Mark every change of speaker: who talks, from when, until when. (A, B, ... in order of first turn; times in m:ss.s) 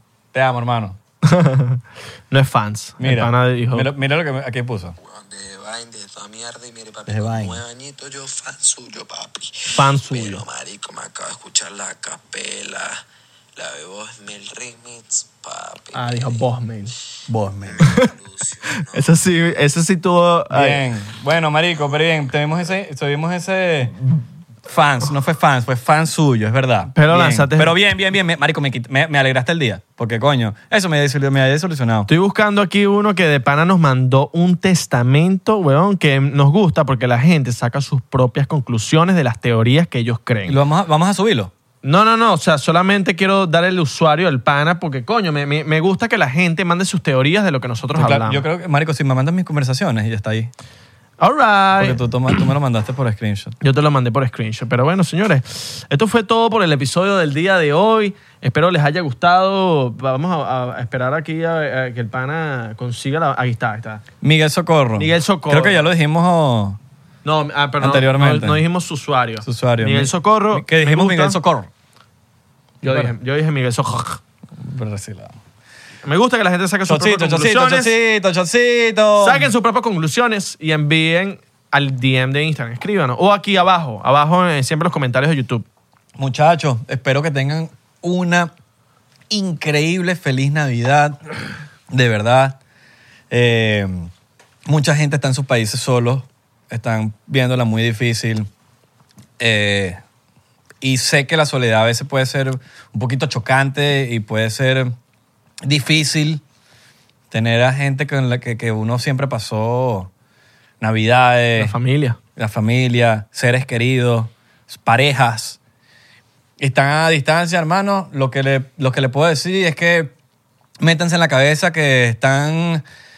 0:00.3-0:01.0 A
0:01.2-0:03.9 B
0:03.0-0:05.0 A
0:05.0-0:13.0 C
0:07.1-0:07.6 A
0:09.7-0:10.4 B
0:13.6-0:16.4 C
0:15.9-0:16.9 B
0:17.3-0:17.9 A
0:17.6-0:19.1 C
0:17.8-0:18.1 B
0:18.8-0:20.8 B
0:20.5-0:23.9 A
0:24.7-0:32.1 A
0:26.9-0:27.7 B
0:32.1-0:40.6 B
0:40.4-0:41.5 A
0:41.8-0:48.4 B
0:47.9-0:50.5 A
0:51.2-0:52.0 B
0:51.8-0:53.6 A
0:53.6-1:04.0 B
1:04.2-1:06.8 A
1:05.0-1:05.8 B
1:07.2-1:11.4 B
1:07.8-1:08.6 A
1:09.4-1:11.7 A
1:12.8-1:14.2 B
1:12.8-1:13.1 A
1:14.6-1:15.4 A
1:16.0-1:17.9 B
1:16.8-1:19.5 A
1:19.2-1:25.6 B
1:26.2-1:28.5 A
1:29.3-1:31.2 A
1:31.9-1:32.6 A
1:33.3-1:34.1 A
1:34.6-1:38.5 A
1:39.4-1:40.0 A
1:40.8-1:44.9 A
1:45.6-1:46.4 A
1:47.3-1:50.1 A
1:50.8-1:51.7 A
1:51.6-1:52.2 B
1:52.4-1:55.6 A
1:56.6-2:00.1 A
2:00.8-2:02.8 A